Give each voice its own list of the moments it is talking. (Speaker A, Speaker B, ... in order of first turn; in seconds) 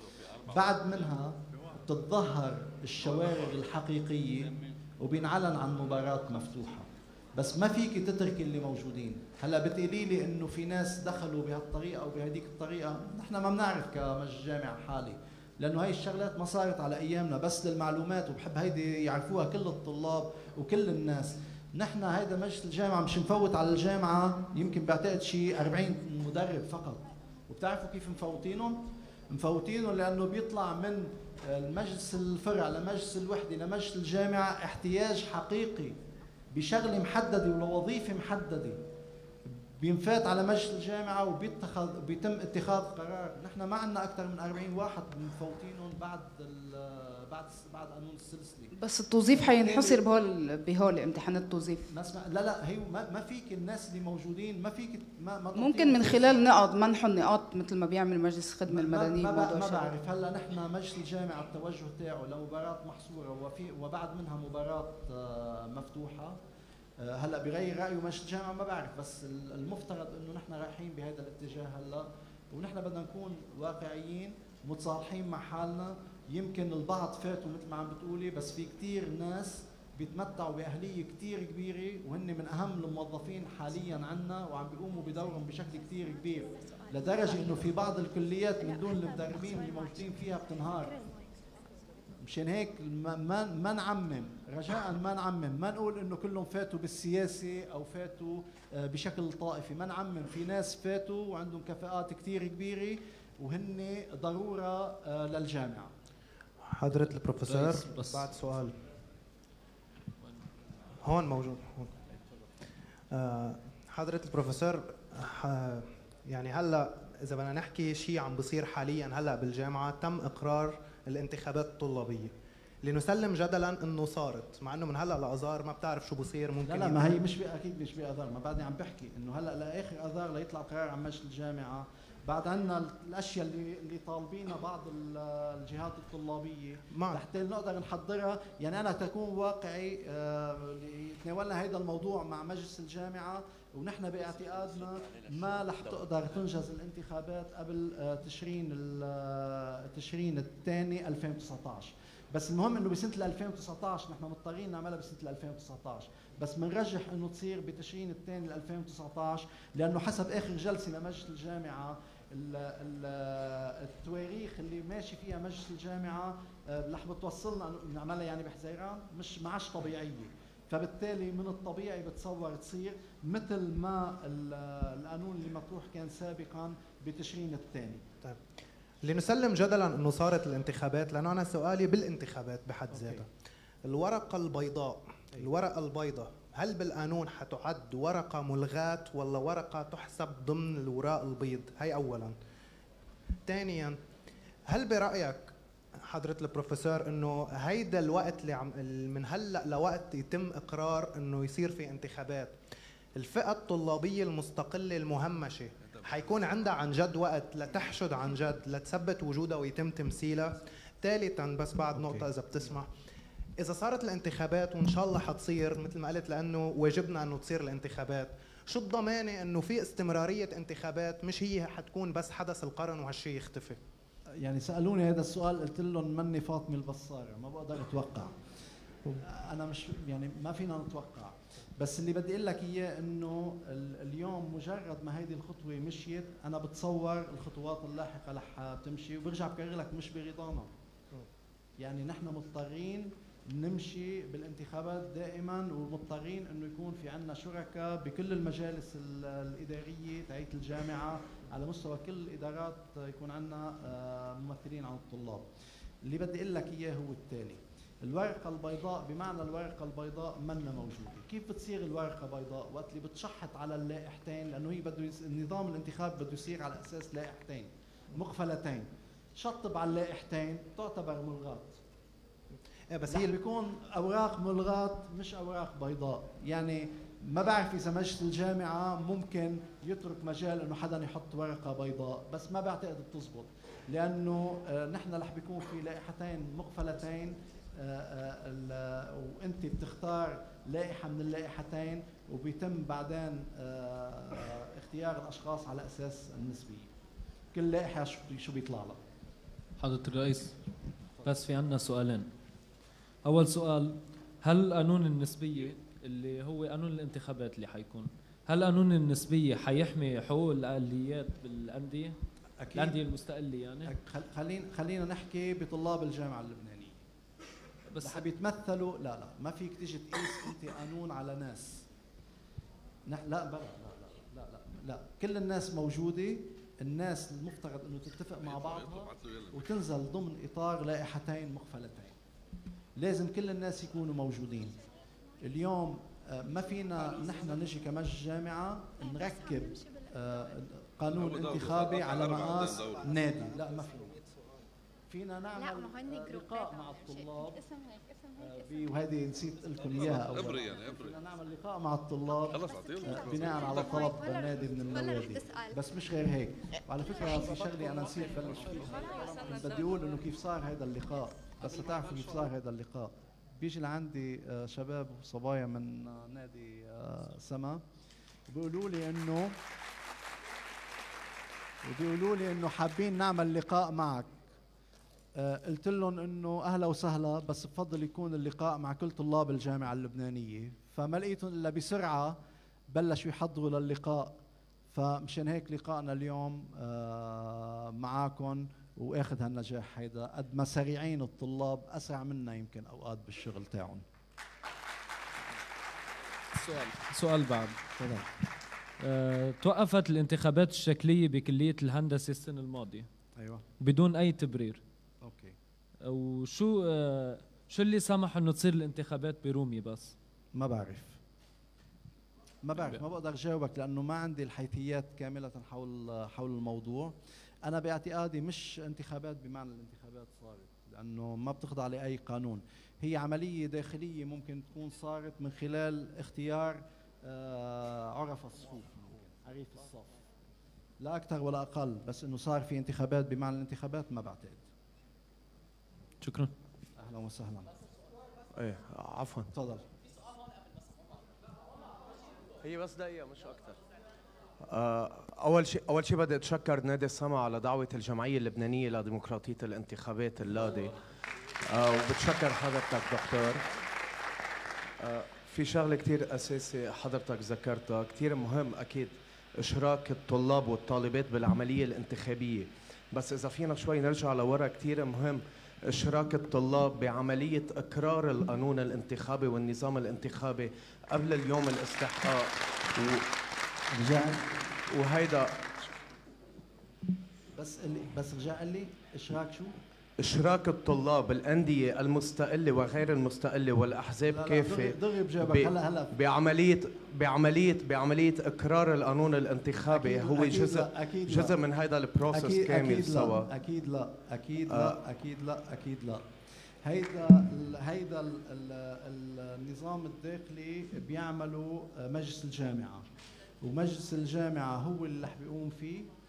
Speaker A: 0.5-36.0, 36.5-38.8, 39.8-48.7, 49.4-50.0, 51.9-56.5, 58.7-66.4, 67.0-91.0, 92.2-105.9, 126.7-178.0, 224.4-228.3, 229.2-240.7, 241.8-255.5, 256.0-271.8, 273.1-296.9, 297.5-299.0, 312.6-313.0, 313.9-317.0, 318.0-321.8, 323.1-332.2, 333.0-334.8, 335.4-344.2, 345.1-347.6, 348.4-367.8, 368.5-369.6, 371.8-374.4, 375.4-384.4, 384.9-394.0, 398.0-398.3, 405.2-405.6, 410.6-411.2, 412.6-430.1, 431.0-434.6, 437.0-437.7, 439.5-439.8, 473.9-474.4, 477.6-479.8, 484.3-486.1, 489.9-491.6, 492.3-496.2, 496.8-503.1, 503.6-506.1
Speaker B: 48.8-51.9, 55.5-59.9
Speaker C: 106.6-108.8, 111.0-112.0, 113.1-122.3, 122.8-127.2, 136.9-137.2, 179.0-183.3, 183.8-192.3, 193.5-194.0, 194.7-195.5, 196.1-202.6, 203.2-212.9, 213.6-223.8, 272.9-273.3
Speaker D: 107.5-108.3, 299.8-300.6, 301.2-302.3, 303.2-312.1, 312.7-313.9, 317.9-318.2, 396.6-397.8, 399.0-403.1, 403.8-404.8, 406.1-410.2, 436.2-436.5
Speaker E: 438.6-439.5, 442.6-443.8, 444.6-450.9, 451.6-453.6, 455.0-473.3, 474.9-475.6, 480.2-493.5, 494.7-495.0